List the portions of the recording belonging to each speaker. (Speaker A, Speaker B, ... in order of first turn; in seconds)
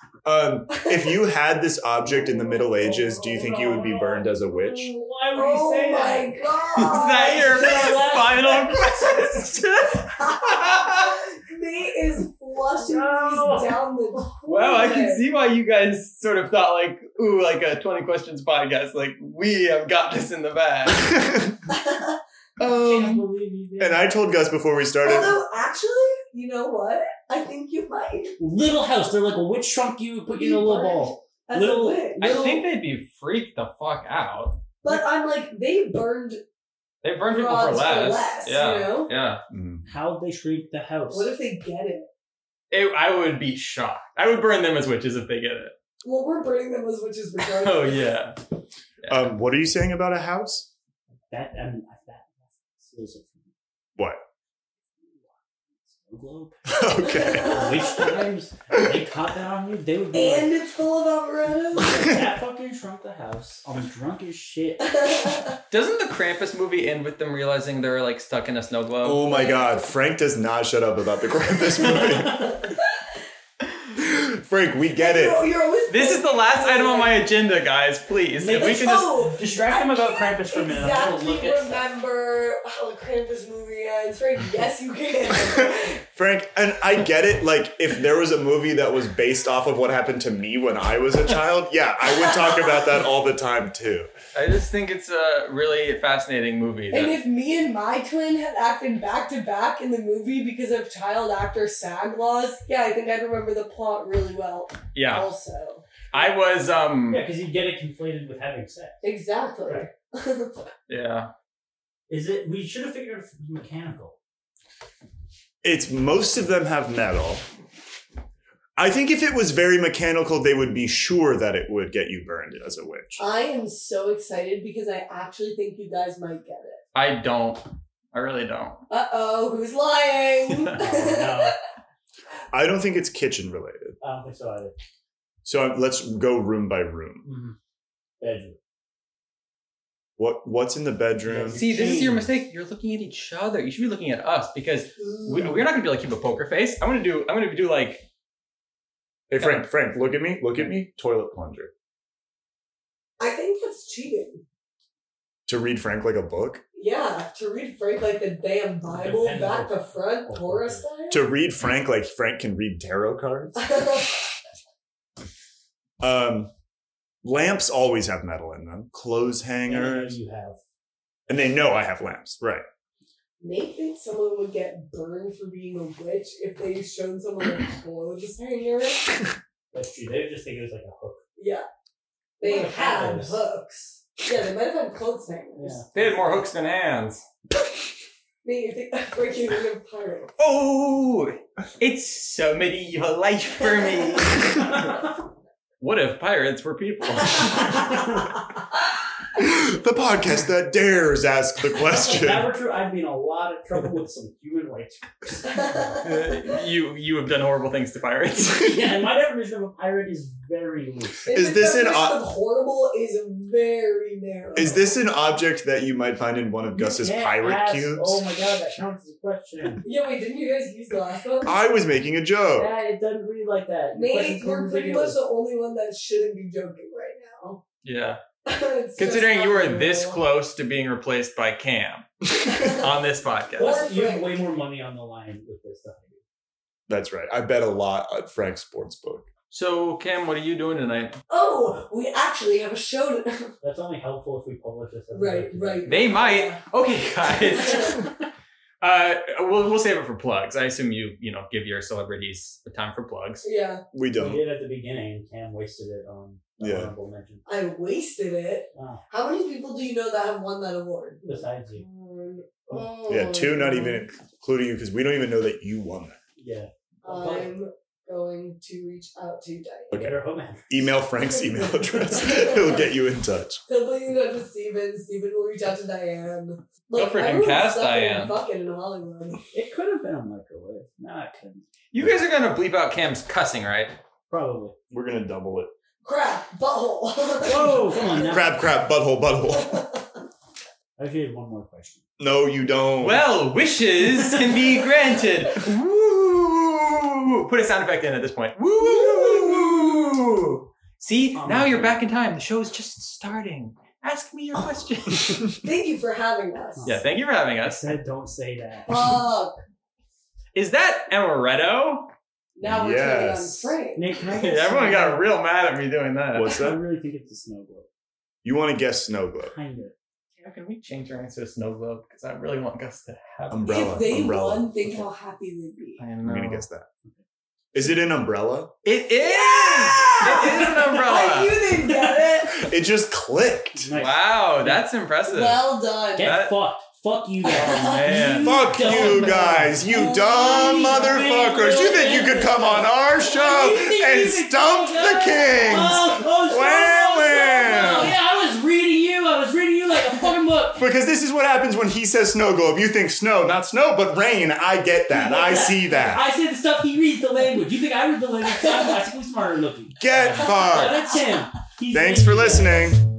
Speaker A: 0.2-4.9, 20.9-21.6, 22.6-23.2, 23.8-25.4, 39.5-39.8, 49.1-50.7, 54.0-54.2, 56.7-58.1, 69.0-72.6, 74.0-75.5, 85.5-94.1, 115.6-117.4, 118.8-123.2, 132.5-134.0, 135.4-137.2, 140.2-141.6, 149.3-151.7, 155.5-156.6, 161.1-163.8, 166.0-166.5, 167.2-170.2, 171.3-172.6, 199.3-202.5, 211.3-212.2, 214.6-218.2, 221.4-222.7, 236.9-239.3, 253.9-254.4, 256.6-256.9, 263.1-266.2, 269.9-270.2, 270.7-273.6, 284.9-285.7, 288.2-289.8, 292.2-293.3, 312.6-313.7, 316.3-316.8, 318.4-319.5, 323.5-325.0, 326.2-326.9, 327.7-328.7, 332.6-333.9, 338.4-348.2, 350.8-356.3, 360.0-361.2, 361.9-363.0
Speaker B: 0.8-1.1, 5.3-15.2, 21.7-22.2, 25.0-28.4, 30.3-32.6, 34.8-36.4, 37.3-39.1, 41.1-42.1, 46.0-48.1, 57.0-58.1, 60.1-62.1, 64.8-65.5, 69.3-69.8, 72.1-72.9, 75.0-77.2, 78.5-86.0, 96.9-105.8, 109.0-110.7, 123.2-126.8, 128.9-131.6, 145.0-145.6, 153.2-154.4, 156.8-161.3, 163.6-164.2, 173.4-179.1, 181.4-181.7, 182.4-185.8, 188.4-190.3, 193.8-194.3, 197.5-197.8, 205.7-206.0, 211.2-214.9, 219.8-221.6, 223.9-227.6, 228.4-230.2, 232.5-232.8, 233.6-234.4, 241.3-243.5, 245.1-246.6, 247.5-248.0, 253.4-253.8, 257.5-264.0, 267.0-270.0, 272.2-272.8, 273.7-279.4, 286.0-288.4, 289.6-289.9, 298.8-299.9, 305.6-306.9, 308.9-309.6, 312.6-314.0, 323.7-326.0, 329.2-332.7, 335.3-336.3, 337.4-338.3, 339.9-342.4
Speaker C: 2.2-8.8, 12.8-13.8, 22.6-24.1, 28.4-32.4, 39.9-41.3, 51.3-53.5, 55.1-60.5, 61.8-65.0, 78.4-81.8, 107.1-109.0, 112.1-114.2, 130.8-131.6, 134.0-134.8, 137.2-137.6, 138.2-138.6, 141.2-142.3, 158.9-160.9, 169.7-170.6, 179.7-181.2, 182.4-183.4, 185.6-186.2, 201.8-205.8, 208.6-211.2, 216.7-219.8, 222.5-225.2, 233.6-236.2, 243.6-246.1, 254.2-257.4, 258.8-259.0, 261.2-261.9, 266.4-267.5, 269.9-270.7, 279.5-281.7, 284.3-284.8, 287.4-288.5, 291.0-292.0, 301.4-302.0, 306.8-307.1, 307.6-309.0, 313.9-315.3, 316.5-317.9, 319.4-319.9, 330.4-331.0, 331.9-332.2, 333.8-334.9, 336.2-350.9, 355.1-363.0
Speaker D: 6.8-11.2, 14.5-21.1, 32.2-34.6, 37.0-39.4, 42.7-45.7, 47.4-48.4, 49.0-49.3, 65.7-69.2, 75.9-79.2, 94.3-97.2, 104.9-105.3, 106.1-107.3, 110.9-111.3, 126.9-128.8, 141.5-148.1, 149.4-149.7, 185.9-187.2, 190.4-195.0, 195.8-198.1, 206.0-208.9, 227.8-228.2, 229.0-233.8, 239.5-241.2, 245.9-248.2, 248.8-253.5, 276.9-278.4, 281.9-283.9, 293.0-305.6, 306.9-307.9, 310.6-312.1, 314.3-316.6, 320.4-323.9, 326.0-326.6, 328.8-331.6, 333.9-336.6, 337.8-339.4, 360.1-360.5